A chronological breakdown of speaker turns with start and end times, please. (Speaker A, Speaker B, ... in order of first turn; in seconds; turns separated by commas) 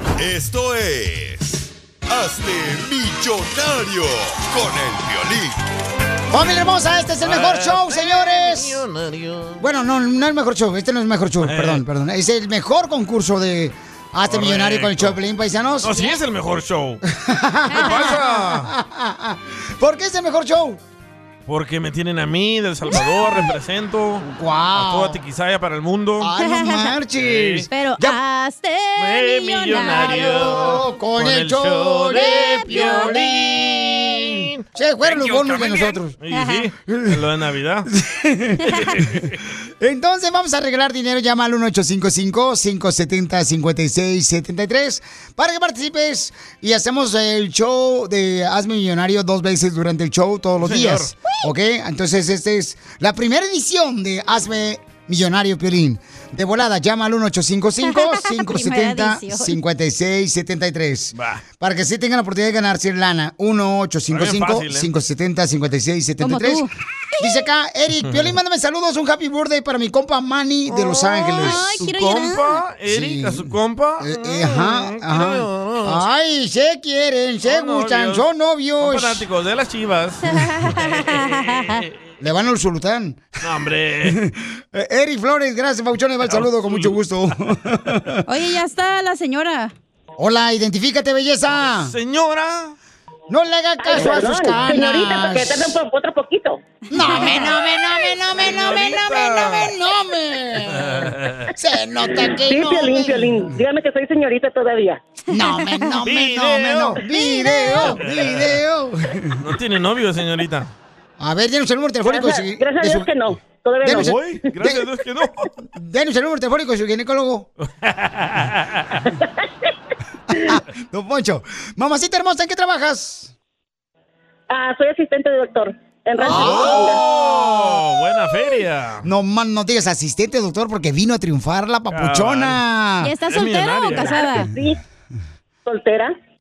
Speaker A: 0.2-5.5, Speaker B: 6.3-8.8, Speaker C: 7.2-8.0, Speaker C: 8.5-9.5, Speaker B: 9.6-16.0, Speaker C: 11.4-11.8, Speaker C: 14.3-15.2, Speaker C: 15.8-17.0, Speaker B: 17.1-20.8, Speaker D: 17.7-18.1, Speaker C: 17.7-18.7, Speaker C: 21.5-26.3, Speaker B: 24.2-25.2, Speaker B: 26.2-28.2, Speaker D: 26.4-26.9, Speaker C: 27.1-27.7, Speaker D: 27.7-30.8, Speaker C: 29.0-37.9, Speaker B: 29.8-36.1, Speaker D: 32.1-33.5, Speaker D: 36.3-36.7, Speaker B: 36.9-37.2, Speaker B: 37.9-39.3, Speaker C: 38.6-39.4, Speaker B: 39.8-66.7, Speaker C: 50.6-51.1, Speaker D: 57.9-59.5, Speaker C: 61.1-61.4, Speaker C: 64.1-64.9, Speaker D: 66.2-66.7, Speaker B: 67.2-71.8, Speaker C: 68.0-68.3, Speaker C: 70.7-76.0, Speaker D: 71.2-72.6, Speaker B: 72.9-79.2, Speaker C: 77.4-78.2, Speaker C: 78.8-81.9, Speaker D: 80.3-81.8, Speaker B: 82.2-83.3, Speaker C: 83.4-84.2, Speaker B: 84.0-88.2, Speaker C: 86.3-86.9, Speaker D: 88.3-89.7, Speaker B: 90.2-91.9, Speaker C: 91.8-92.8, Speaker B: 93.3-95.7, Speaker E: 93.8-96.6, Speaker B: 96.9-103.5, Speaker C: 98.4-99.7, Speaker C: 100.7-101.5, Speaker E: 102.2-105.0, Speaker B: 105.3-109.4, Speaker C: 106.0-107.0, Speaker D: 107.0-107.9, Speaker C: 107.7-108.6, Speaker C: 109.4-110.7, Speaker B: 111.2-113.1, Speaker E: 112.0-114.1, Speaker B: 113.8-114.8, Speaker C: 113.8-115.5, Speaker B: 115.7-117.5, Speaker C: 117.6-119.0, Speaker B: 120.3-123.3, Speaker E: 124.5-127.0, Speaker B: 126.2-127.0, Speaker C: 126.3-129.1, Speaker B: 129.0-133.1, Speaker C: 131.9-132.6, Speaker D: 133.0-134.5, Speaker C: 133.3-134.3, Speaker E: 133.9-134.8, Speaker E: 135.7-136.2